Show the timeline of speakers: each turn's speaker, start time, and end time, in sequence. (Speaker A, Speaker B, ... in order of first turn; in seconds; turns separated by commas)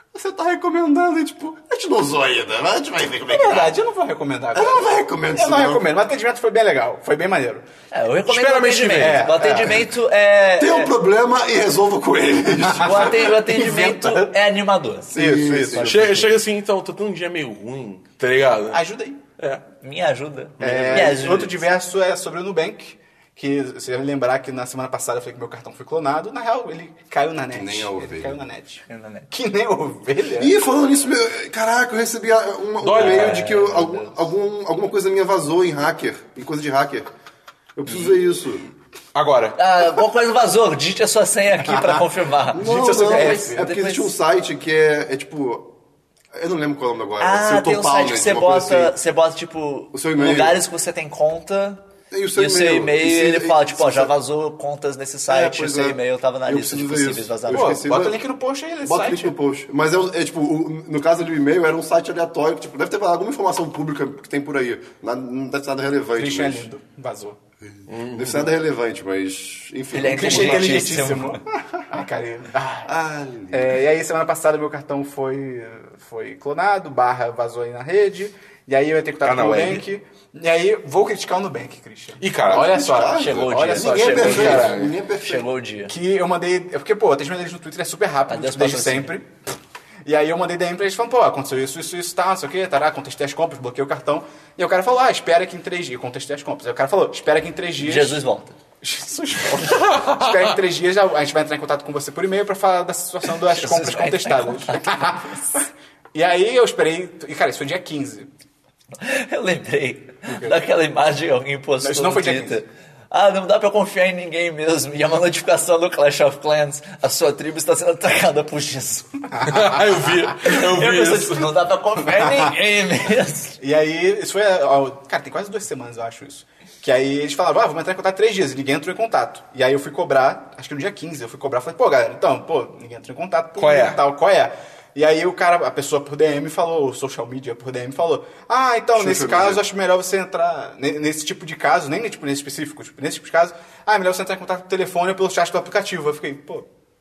Speaker A: 0.1-3.8, Speaker B: 3.3-7.7, Speaker A: 4.5-5.9, Speaker C: 7.9-10.9, Speaker D: 8.3-9.3, Speaker B: 8.9-9.9, Speaker A: 10.6-13.3, Speaker B: 12.6-14.4, Speaker C: 12.8-15.2, Speaker B: 15.1-15.9, Speaker A: 15.1-16.2, Speaker C: 15.7-16.3, Speaker D: 15.8-18.8, Speaker B: 18.7-19.2, Speaker D: 19.4-19.6, Speaker C: 19.8-21.7, Speaker D: 20.6-21.1, Speaker B: 20.6-30.6, Speaker A: 27.5-28.5, Speaker C: 28.9-29.3, Speaker A: 30.4-37.1, Speaker D: 32.8-33.7, Speaker C: 32.9-34.2, Speaker A: 37.8-38.7, Speaker D: 39.1-39.6, Speaker C: 39.6-44.1, Speaker B: 41.6-43.7, Speaker A: 42.5-45.7, Speaker A: 46.3-49.0, Speaker C: 47.2-51.8, Speaker A: 49.9-50.6, Speaker A: 52.1-54.1, Speaker C: 52.4-57.8, Speaker A: 55.3-58.2, Speaker B: 57.5-59.3, Speaker A: 58.8-66.7, Speaker B: 66.2-67.4, Speaker A: 67.6-71.1, Speaker D: 67.9-68.5, Speaker C: 69.9-71.4, Speaker B: 70.1-72.9, Speaker A: 72.8-73.8, Speaker B: 73.5-84.7, Speaker D: 79.2-79.8, Speaker D: 82.2-82.9, Speaker A: 82.5-85.5, Speaker C: 83.1-85.9, Speaker D: 84.2-84.9, Speaker B: 85.9-89.3, Speaker C: 88.3-89.2, Speaker B: 90.0-98.2, Speaker C: 97.8-98.6, Speaker B: 98.8-108.3, Speaker C: 103.5-104.9, Speaker C: 109.0-119.5, Speaker B: 110.3-110.6, Speaker B: 111.8-112.6, Speaker B: 119.3-119.8, Speaker D: 119.5-121.5, Speaker C: 120.4-123.6, Speaker B: 122.0-122.5, Speaker B: 123.6-146.7, Speaker D: 133.6-134.0, Speaker A: 138.9-139.6